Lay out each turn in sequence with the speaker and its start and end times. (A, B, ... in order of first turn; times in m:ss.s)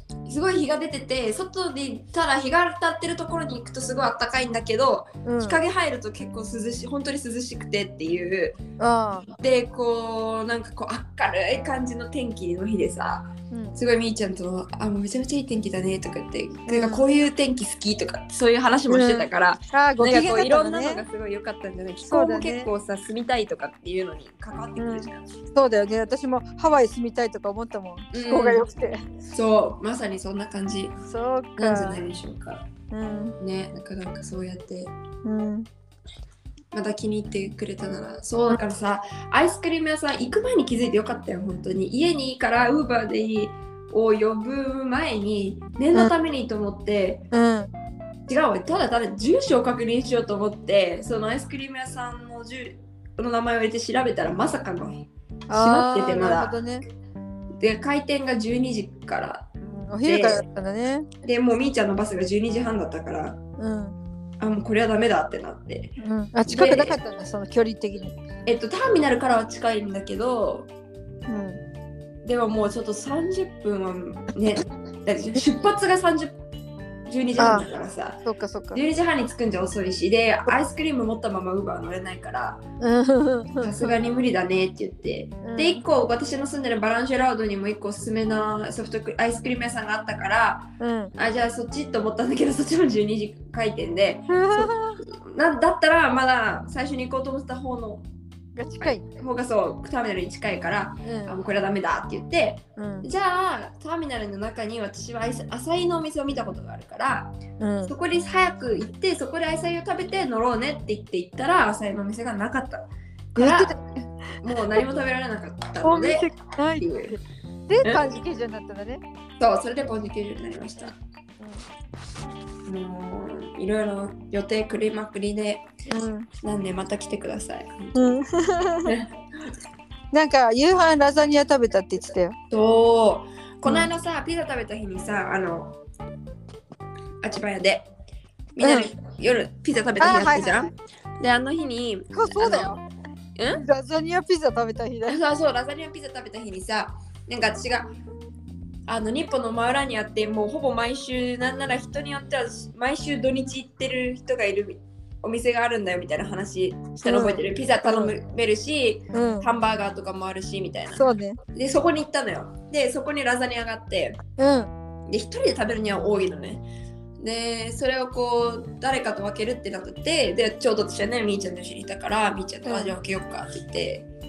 0:00.2-0:08.6 A
0:05.2-0:05.6 B
0:08.8-0:09.3 B
0:09.4-0:25.3 A
0:13.5-0:13.8 B
0:16.7-0:17.0 B
0:18.9-0:21.0 B
0:22.1-0:22.7 B
0:24.8-0:29.0 B
0:28.1-0:28.6 A
0:29.3-0:31.0 A
0:31.0-0:32.0 B
0:31.6-0:32.7 A
0:32.9-0:33.4 B
0:33.4-0:34.9 A
0:35.2-0:35.7 B
0:36.7-0:47.3 A
0:47.3-0:47.7 B
0:48.3-0:56.5 A
0:55.5-0:56.8 B
0:57.6-0:59.5 A
0:59.6-1:01.1 B
1:00.0-1:00.4 A
1:01.2-1:03.4 A
1:03.6-1:04.0 B
1:04.4-1:05.9 A
1:06.0-1:08.1 B
1:06.5-1:07.0 A
1:08.4-1:10.7 A
1:11.3-1:11.6 B
1:12.2-1:16.4 A
1:17.1-1:18.2 A
1:17.4-1:17.6 B
1:18.2-1:18.8 B
1:18.7-1:22.6 A
1:22.8-1:24.0 B
1:23.6-1:38.0 A
1:25.4-1:25.8 B
1:30.8-1:31.1 B
1:34.3-1:35.0 B
1:38.6-1:39.0 B
1:38.8-1:57.2 A
1:41.0-1:41.4 B
1:42.8-1:43.1 B
1:47.6-1:47.9 B
1:53.4-1:53.7 B
1:55.8-1:57.2 B
1:57.7-1:59.0 B
1:59.4-2:00.9 A
2:02.6-2:05.6 A
2:05.9-2:06.3 B
2:06.4-2:08.2 A
2:07.9-2:08.9 B
2:10.1-2:12.4 B
2:12.5-2:15.8 A
2:17.2-2:17.8 A
2:18.6-2:22.7 A
2:18.6-2:18.9 B
2:20.0-2:20.7 B
2:22.1-2:22.8 B
2:23.4-2:23.6 A
2:23.5-2:25.2 B
2:25.1-2:27.9 A
2:28.9-2:41.0 A
2:37.0-2:38.1 B
2:39.1-2:39.5 B
2:40.9-2:41.4 B
2:41.5-2:44.2 A
2:44.4-2:44.7 B
2:45.1-2:46.6 A
2:47.2-2:54.1 A
2:52.6-2:52.9 B